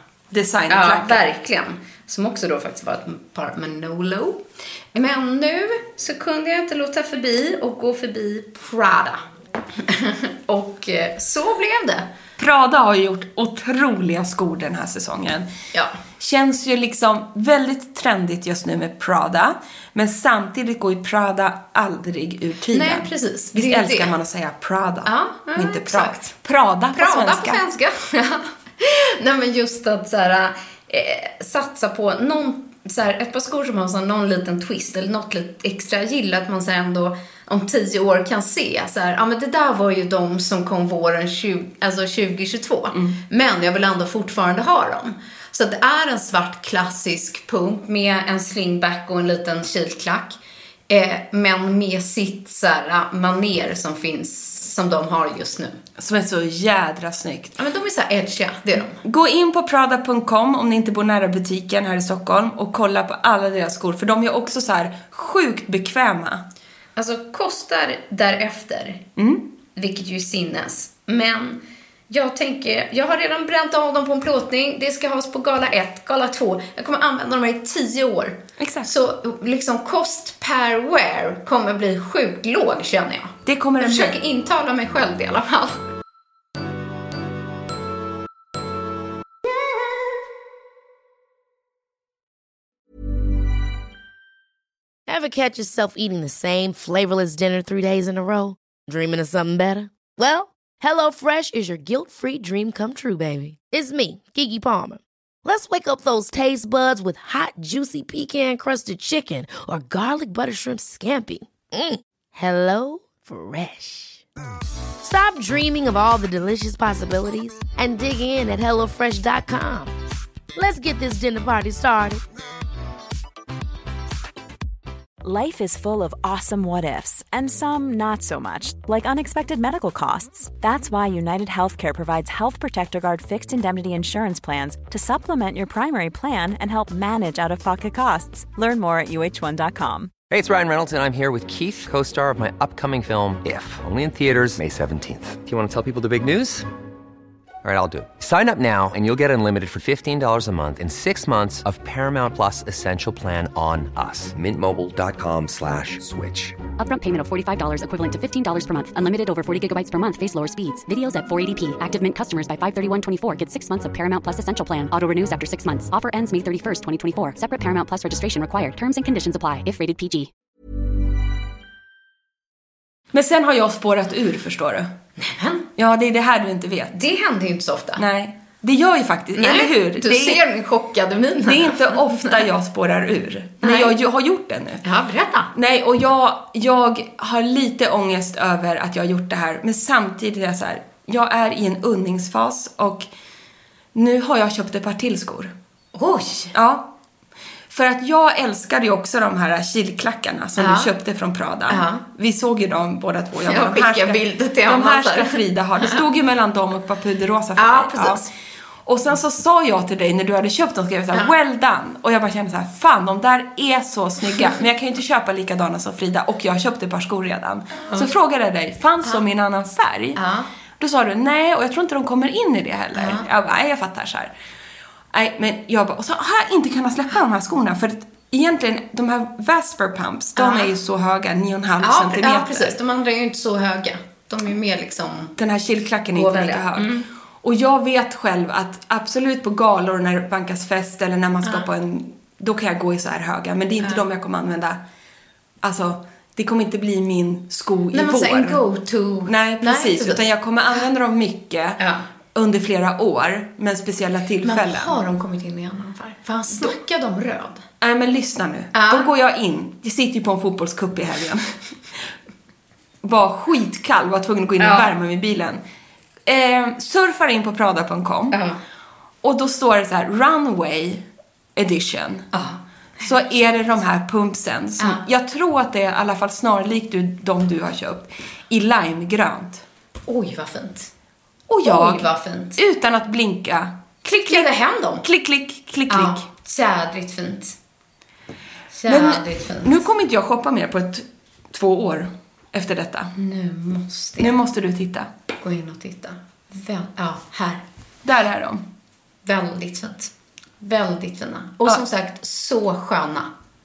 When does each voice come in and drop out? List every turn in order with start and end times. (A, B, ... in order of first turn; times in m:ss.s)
0:00.3-0:01.2 A
0:00.7-0:09.2 B
0:09.8-0:12.1 B
0:12.4-0:15.5 A
0:16.2-0:27.6 A
0:22.7-0:24.1 B
0:25.0-0:26.3 B
0:26.9-0:50.4 B
0:50.9-0:55.8 B
0:56.0-0:57.6 A
0:57.6-0:59.0 B
0:59.0-1:06.4 A
1:07.0-1:09.0 B
1:09.2-1:09.4 A
1:09.8-1:25.8 B
1:18.6-1:18.9 A
1:23.4-1:24.2 A
1:35.1-1:54.2 C
1:55.0-1:59.9 C
2:00.6-2:02.2 C
2:05.2-2:20.1 D
2:20.3-2:26.7 E
2:27.6-2:36.6 E
2:36.8-2:50.3 F
2:53.1-2:54.9 A
2:55.2-2:55.6 B
2:55.8-2:56.9 A
2:56.9-2:58.0 B
2:58.0-3:00.4 A
2:59.4-3:02.5 B
3:01.4-3:04.8 A
3:03.6-3:04.0 B
3:04.8-3:05.5 B
3:05.5-3:13.0 A
3:13.9-3:15.5 A
3:15.9-3:16.5 B
3:16.5-3:16.9 A
3:17.7-3:28.2 A
3:20.6-3:20.9 B
3:21.7-3:22.0 B
3:23.4-3:26.0 B
3:27.6-3:28.3 B
3:28.8-3:40.2 A
3:37.8-3:38.1 B
3:40.2-3:40.5 B
3:40.8-3:44.3 A
3:43.0-3:43.2 B
3:45.1-3:52.7 A
3:50.4-3:50.7 B
3:51.8-3:55.4 B
3:55.4-4:04.8 A
3:56.1-3:57.0 B
4:05.6-4:08.6 A
4:07.9-4:10.2 B
4:09.2-4:11.8 A
4:11.8-4:12.0 B
4:12.3-4:14.9 A
4:14.4-4:17.6 B
4:17.8-4:22.1 A
4:18.7-4:19.1 B
4:23.0-4:25.6 A
4:24.6-4:24.9 B
4:26.2-4:28.4 A
4:28.3-4:28.6 B
4:29.2-4:31.0 A
4:31.6-4:32.3 A
4:32.3-4:33.0 B
4:33.0-4:39.6 A
4:40.1-4:40.9 B
4:41.5-4:44.5 A
4:41.6-4:42.6 B
4:44.0-4:45.0 B
4:45.0-4:46.2 A
4:45.9-4:47.6 B
4:48.7-4:49.8 B
4:48.9-4:53.1 A
4:53.2-4:54.4 B
4:54.2-4:55.1 A
4:55.4-4:57.6 B
4:58.0-4:58.6 A
4:59.2-5:03.3 B